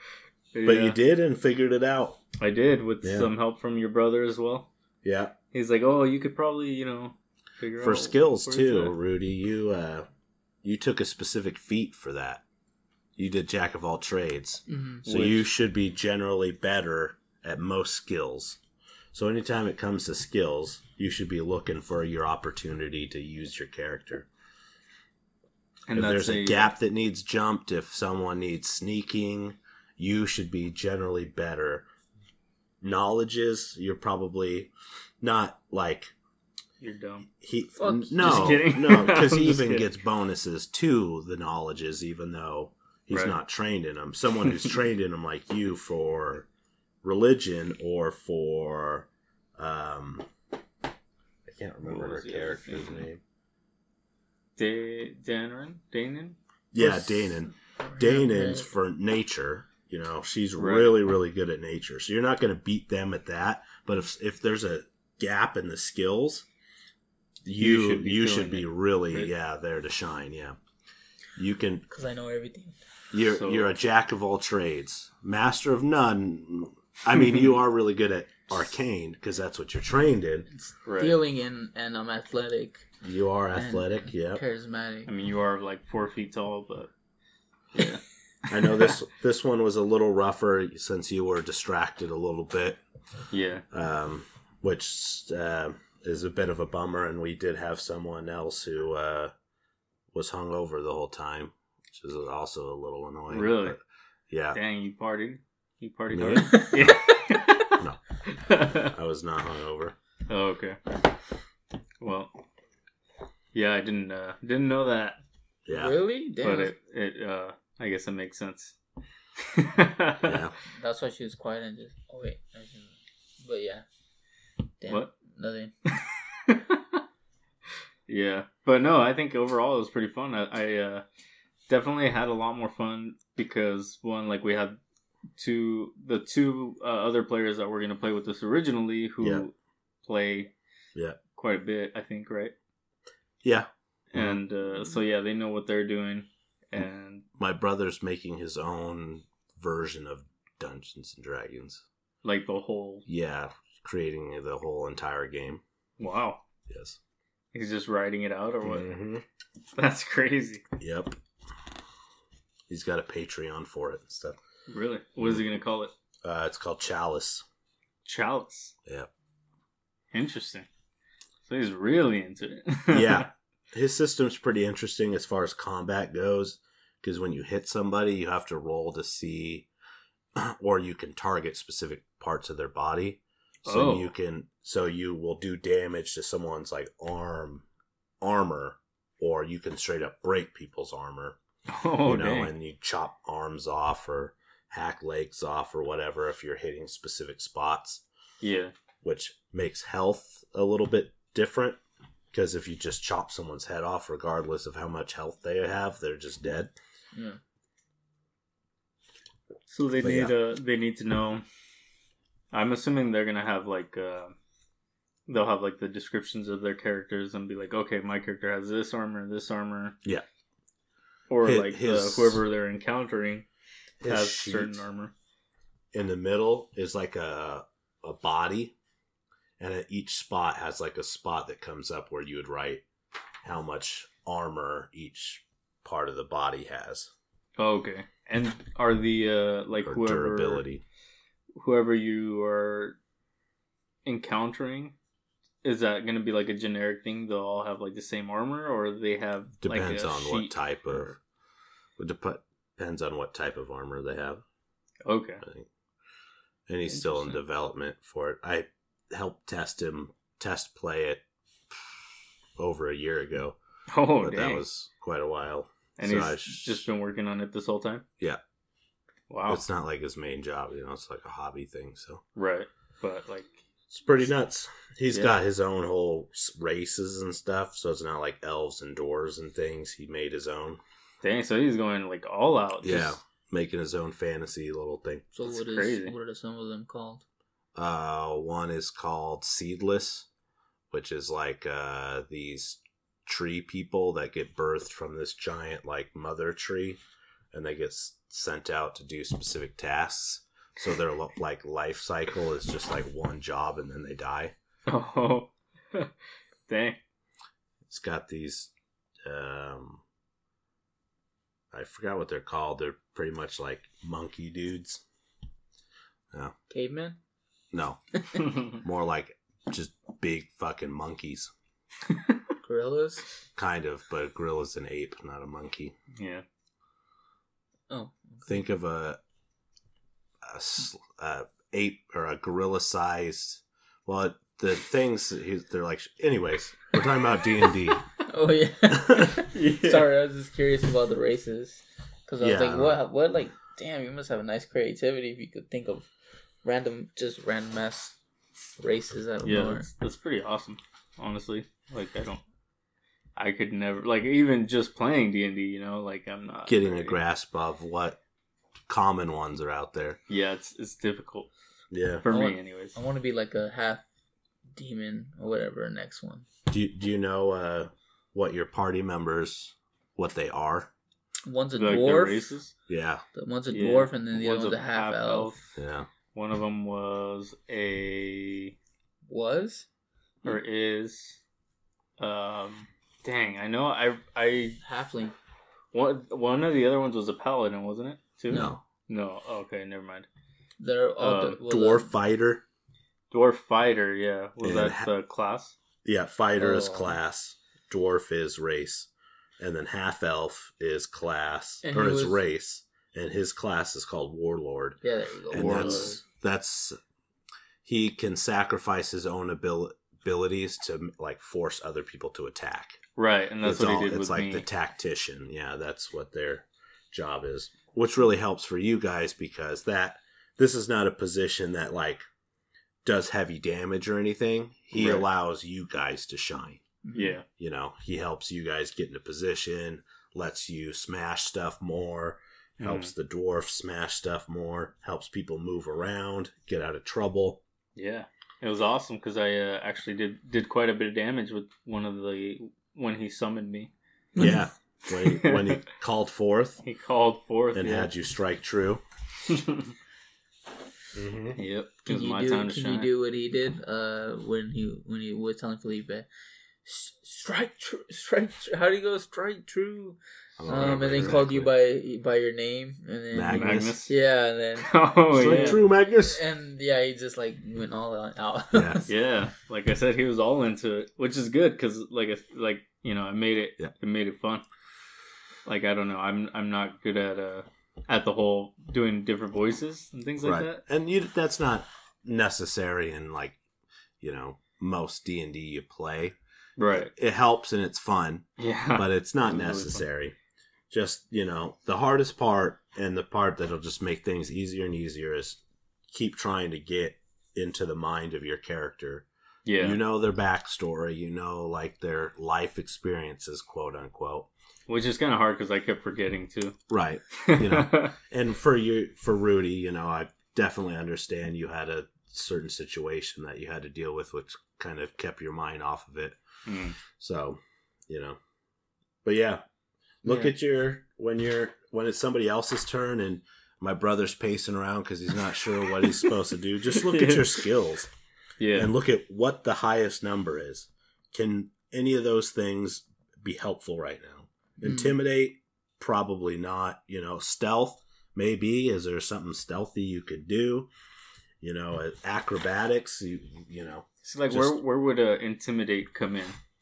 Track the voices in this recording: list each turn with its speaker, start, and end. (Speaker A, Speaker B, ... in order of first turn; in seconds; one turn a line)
Speaker A: 0.5-1.0
Speaker B: 0.6-2.2
Speaker A: 2.4-4.7
Speaker B: 3.0-3.3
Speaker B: 5.0-5.3
Speaker A: 5.5-8.9
Speaker B: 7.8-10.1
Speaker B: 10.6-12.4
Speaker B: 13.2-18.6
Speaker C: 14.7-15.0
Speaker A: 15.0-15.5
Speaker B: 19.1-24.3
Speaker A: 25.9-26.7
Speaker B: 25.9-31.9
Speaker B: 32.8-36.1
Speaker A: 36.8-37.3
Speaker B: 37.4-46.5
Speaker C: 37.8-38.6
Speaker A: 38.2-39.9
Speaker B: 47.0-50.3
Speaker B: 51.5-53.2
Speaker A: 51.8-53.1
Speaker A: 54.6-56.4
Speaker B: 56.7-66.5
Speaker C: 56.8-58.7
Speaker A: 60.6-61.0
Speaker B: 67.5-70.6
Speaker A: 67.6-69.3
Speaker B: 71.3-71.8
Speaker C: 71.9-72.8
Speaker B: 73.1-80.5
Speaker A: 73.3-73.7
Speaker C: 80.5-82.9
Speaker A: 80.8-81.2
Speaker B: 83.0-84.4
Speaker C: 83.5-85.1
Speaker A: 85.1-86.9
Speaker A: 87.7-88.0
Speaker B: 88.5-92.8
Speaker A: 93.3-93.6
Speaker B: 93.7-99.3
Speaker B: 100.1-104.6
Speaker A: 103.3-103.8
Speaker A: 104.5-108.9
Speaker B: 106.1-107.0
Speaker B: 108.7-110.0
Speaker A: 110.3-110.8
Speaker A: 112.0-112.3
Speaker A: 113.5-115.2
Speaker B: 115.7-116.0
Speaker C: 115.7-116.7
Speaker A: 116.4-118.8
Speaker A: 119.4-120.5
Speaker B: 120.2-120.5
Speaker C: 120.7-123.8
Speaker C: 124.8-125.7
Speaker A: 126.5-127.0
Speaker A: 128.1-131.0
Speaker A: 131.7-134.8
Speaker A: 135.4-139.5
Speaker A: 140.0-140.5
Speaker A: 141.3-142.5
Speaker B: 143.4-144.4
Speaker A: 144.1-147.2
Speaker B: 147.4-151.8
Speaker A: 152.2-153.0
Speaker B: 153.1-155.6
Speaker A: 156.0-156.4
Speaker B: 156.7-157.0
Speaker A: 157.5-158.9
Speaker B: 158.6-159.2
Speaker A: 159.8-160.6
Speaker B: 160.8-161.2
Speaker B: 162.7-164.4
Speaker A: 164.7-165.9
Speaker B: 166.2-167.4
Speaker A: 168.0-168.7
Speaker A: 170.1-170.7
Speaker A: 171.4-173.3
Speaker B: 172.9-179.7
Speaker B: 180.3-187.6
Speaker A: 183.6-184.1
Speaker B: 188.2-191.4
Speaker A: 191.7-192.5
Speaker B: 192.0-198.0
Speaker A: 198.4-198.7
Speaker B: 199.0-201.8
Speaker B: 202.3-206.7
Speaker C: 207.1-207.4
Speaker A: 209.7-211.4
Speaker B: 210.0-210.3
Speaker A: 212.5-214.3
Speaker A: 215.3-220.0
Speaker A: 221.3-223.4
Speaker B: 221.4-222.4
Speaker B: 224.0-224.8
Speaker A: 224.1-225.1
Speaker B: 225.9-228.7
Speaker B: 229.6-232.8
Speaker B: 233.4-237.1
Speaker A: 237.6-240.6
Speaker B: 239.8-240.8
Speaker A: 241.6-243.0
Speaker A: 244.0-244.9
Speaker A: 245.6-251.1
Speaker B: 249.6-251.2
Speaker B: 252.0-254.4
Speaker A: 255.0-255.4
Speaker B: 255.4-255.7
Speaker B: 256.7-261.8
Speaker A: 256.9-257.4
Speaker B: 262.6-263.6
Speaker A: 263.9-264.6
Speaker B: 264.2-266.8
Speaker A: 266.0-268.0
Speaker A: 269.3-269.6
Speaker B: 269.5-272.2
Speaker A: 272.4-273.6
Speaker B: 273.9-280.8
Speaker A: 275.1-275.4
Speaker A: 281.2-283.2
Speaker B: 282.8-285.2
Speaker C: 285.3-287.2
Speaker A: 285.5-286.1
Speaker B: 287.8-290.3
Speaker B: 290.9-297.0
Speaker B: 297.5-304.5
Speaker A: 304.9-306.1
Speaker A: 306.7-307.0
Speaker B: 307.9-308.7
Speaker B: 309.2-310.0
Speaker B: 311.7-315.0
Speaker C: 316.7-317.2
Speaker B: 317.7-321.5
Speaker C: 322.6-323.2
Speaker B: 323.6-325.9
Speaker A: 326.1-326.4
Speaker C: 327.9-328.5
Speaker B: 328.4-329.2
Speaker B: 330.4-338.0
Speaker C: 338.2-346.1
Speaker B: 338.9-339.3
Speaker A: 339.4-340.1
Speaker B: 342.4-343.0
Speaker C: 346.6-348.2
Speaker C: 348.8-349.9
Speaker A: 349.4-352.4
Speaker A: 353.4-357.2
Speaker B: 356.7-358.2
Speaker B: 358.9-360.2
Speaker A: 360.3-361.5
Speaker B: 361.9-362.2
Speaker A: 362.2-362.9
Speaker C: 362.3-364.0
Speaker C: 364.7-366.4
Speaker B: 366.7-370.9
Speaker C: 371.4-372.5
Speaker A: 371.8-372.7
Speaker B: 372.9-373.2
Speaker C: 373.3-375.6
Speaker A: 373.7-375.7
Speaker B: 375.8-376.1
Speaker A: 376.3-378.8
Speaker C: 379.3-379.9
Speaker A: 380.4-381.4
Speaker A: 382.2-384.8
Speaker C: 384.8-385.3
Speaker A: 385.9-390.3
Speaker C: 388.5-388.8
Speaker B: 388.5-388.8
Speaker C: 390.8-392.1
Speaker A: 391.2-391.6
Speaker B: 391.7-392.6
Speaker A: 393.3-395.8
Speaker B: 394.6-395.1
Speaker B: 396.0-399.1
Speaker C: 396.6-397.1
Speaker B: 399.6-407.0
Speaker C: 401.8-402.4
Speaker C: 405.0-406.2
Speaker A: 405.5-406.2
Speaker B: 407.8-413.0
Speaker A: 413.2-414.6
Speaker B: 413.6-422.2
Speaker B: 423.0-426.8
Speaker A: 424.9-425.2
Speaker C: 427.0-427.4
Speaker A: 427.1-427.4
Speaker B: 427.6-437.6
Speaker A: 432.8-433.1
Speaker A: 437.9-443.9
Speaker C: 444.3-444.6
Speaker B: 444.4-446.8
Speaker A: 445.1-445.8
Speaker A: 446.8-448.1
Speaker B: 447.7-449.0
Speaker A: 449.5-449.9
Speaker B: 451.1-451.6
Speaker A: 451.6-453.1
Speaker C: 452.1-456.3
Speaker C: 456.8-469.1
Speaker B: 460.6-461.7
Speaker A: 460.7-461.4
Speaker B: 463.3-464.0
Speaker A: 463.5-464.2
Speaker A: 464.8-465.8
Speaker B: 465.3-466.4
Speaker B: 468.7-469.1
Speaker A: 469.1-474.6
Speaker A: 475.6-480.8
Speaker B: 480.4-483.6
Speaker B: 484.2-486.4
Speaker A: 486.8-487.1
Speaker B: 486.9-490.3
Speaker A: 488.6-490.0
Speaker B: 490.9-495.6
Speaker B: 496.1-499.2
Speaker A: 499.6-500.0
Speaker B: 499.8-504.5
Speaker A: 504.9-506.8
Speaker B: 506.9-516.4
Speaker A: 507.4-508.1
Speaker A: 516.6-517.0
Speaker B: 517.0-518.4
Speaker B: 519.2-519.6
Speaker B: 520.2-528.1
Speaker A: 526.0-526.3
Speaker A: 526.9-527.6
Speaker A: 528.6-528.9
Speaker B: 528.7-540.9
Speaker C: 534.8-535.1
Speaker B: 541.6-544.8
Speaker A: 544.2-546.6